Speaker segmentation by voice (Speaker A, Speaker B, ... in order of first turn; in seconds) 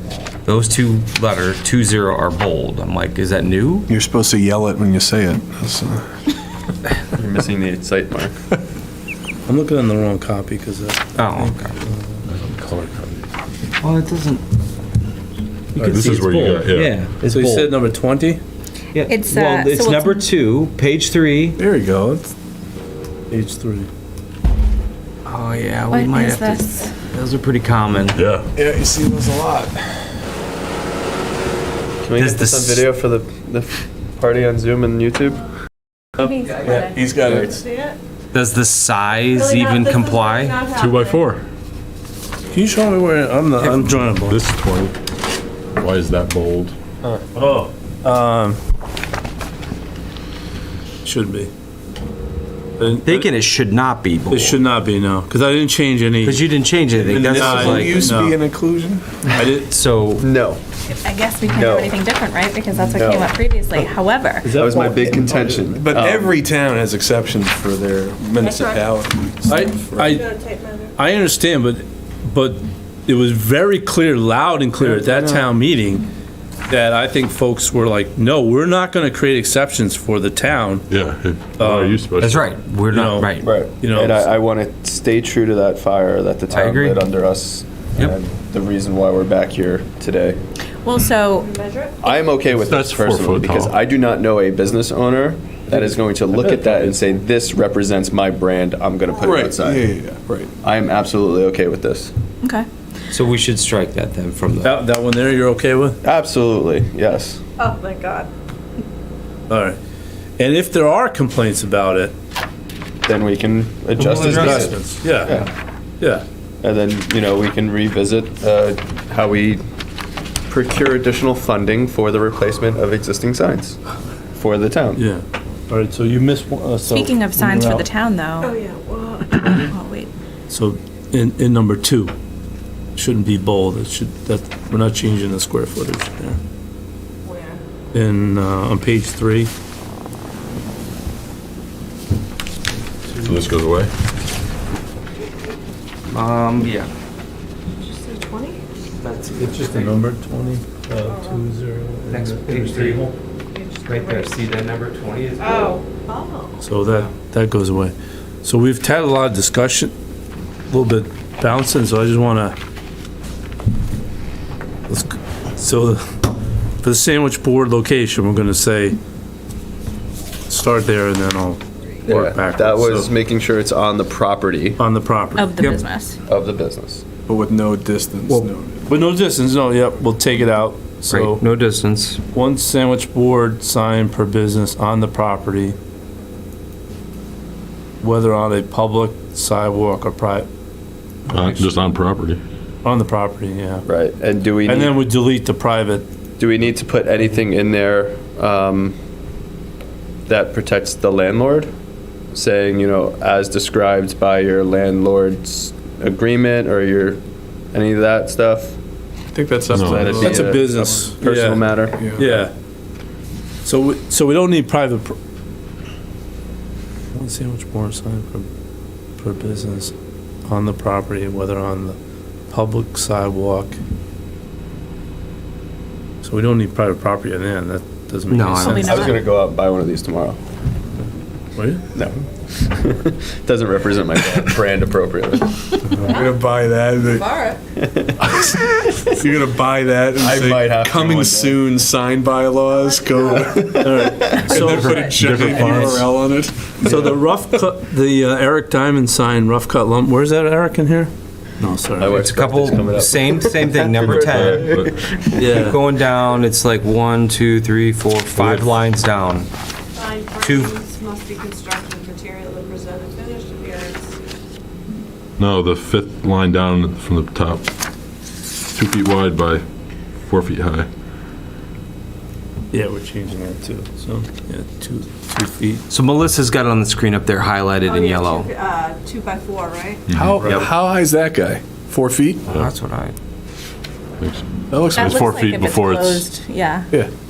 Speaker A: 0.4-3.9, 11.1-11.8, 13.8-14.4, 15.7-17.7, 18.9-21.6, 25.2-28.2, 32.1-32.9, 38.3-40.7, 43.6-44.3, 52.8-54.5, 56.2-58.1, 59.3-60.3, 82.2-83.5, 86.5-87.0, 103.1-104.7, 114.0-114.7, 146.1-146.9, 149.0-149.9, 152.1-153.1, 153.8-155.8, 175.6-175.9, 181.1-182.2, 228.3-228.8, 244.4-246.0, 252.2-259.5, 260.4-260.7, 275.9-278.5, 280.4-280.7, 282.5-283.1
Speaker B: 3.9-6.1, 21.6-22.3, 28.5-30.1, 36.6-37.6, 57.0-59.2, 65.1-70.2, 74.9-75.5, 99.2-100.5, 177.2-178.8, 209.3-210.5, 212.0-212.4, 236.0-237.3, 238.3-247.3, 280.1-282.5, 284.7-285.2
Speaker C: 7.1-8.3, 32.0-35.5, 60.2-60.6, 61.5-61.9, 62.8-63.3, 64.5-66.3, 83.4-90.4, 92.0-99.9, 100.6-102.1, 106.0-107.4, 113.0-115.5, 116.6-119.6, 120.5-123.8, 124.3-125.0, 172.1-174.8, 176.3-177.0, 193.8-195.0, 196.4-199.0, 200.3-201.7, 202.3-207.2, 207.7-208.8, 209.7-212.0, 228.8-230.4, 231.9-235.6, 237.8-238.3, 240.2-241.6, 243.5-244.3, 251.9-255.2
Speaker D: 9.4-12.2, 15.8-16.7, 17.2-18.4, 23.3-23.9, 42.5-44.4, 47.3-48.6, 51.0-51.5, 52.8-53.3, 54.3-56.5, 57.3-58.4, 59.3-59.7, 64.4-65.4, 69.5-70.3, 70.9-76.0, 76.7-80.8, 81.6-82.1, 82.9-84.3, 95.7-97.0, 104.6-106.0, 109.5-109.8, 110.4-112.1, 114.3-115.4, 124.9-127.9, 130.5-132.1, 132.9-136.4, 137.9-139.5, 143.1-143.4, 149.4-153.1, 156.6-159.9, 160.7-162.6, 164.9-166.2, 166.8-169.0, 170.5-173.1, 174.8-175.6, 178.8-181.4, 182.3-185.8, 188.0-190.5, 191.3-191.8, 192.8-193.8, 194.6-196.1, 210.0-212.5, 213.6-215.2, 217.1-218.5, 219.2-219.9, 220.4-222.0, 222.5-223.8, 226.2-229.1, 231.6-231.8, 243.7-245.0, 245.6-246.1, 246.8-252.2, 255.3-255.8, 272.7-275.8, 280.4-280.6
Speaker E: 12.3-13.3, 15.8-16.9, 28.1-28.4, 40.8-41.5, 44.3-44.9, 45.8-46.7, 80.9-82.5, 92.4-93.8, 143.2-143.9, 191.3-192.4, 209.7-210.1, 245.2-245.6, 254.3-255.1, 258.3-258.8, 265.4-267.7, 268.7-269.6, 270.2-270.9, 280.1-280.4, 284.2-286.2
Speaker F: 19.1-20.2, 25.9-26.8, 36.2-37.0, 60.9-64.6, 90.8-91.5, 126.9-128.5, 129.3-130.1, 175.3-176.2, 228.6-229.2, 284.9-286.9
Speaker G: 36.7-38.0, 39.4-41.2, 68.4-69.0, 70.1-70.9, 91.4-92.1, 107.6-108.3, 128.4-129.5, 137.2-137.6, 147.8-148.6, 151.0-151.4, 153.5-154.3, 155.4-156.6, 236.1-236.4, 237.0-237.6, 242.7-243.4, 260.0-264.1, 277.9-280.0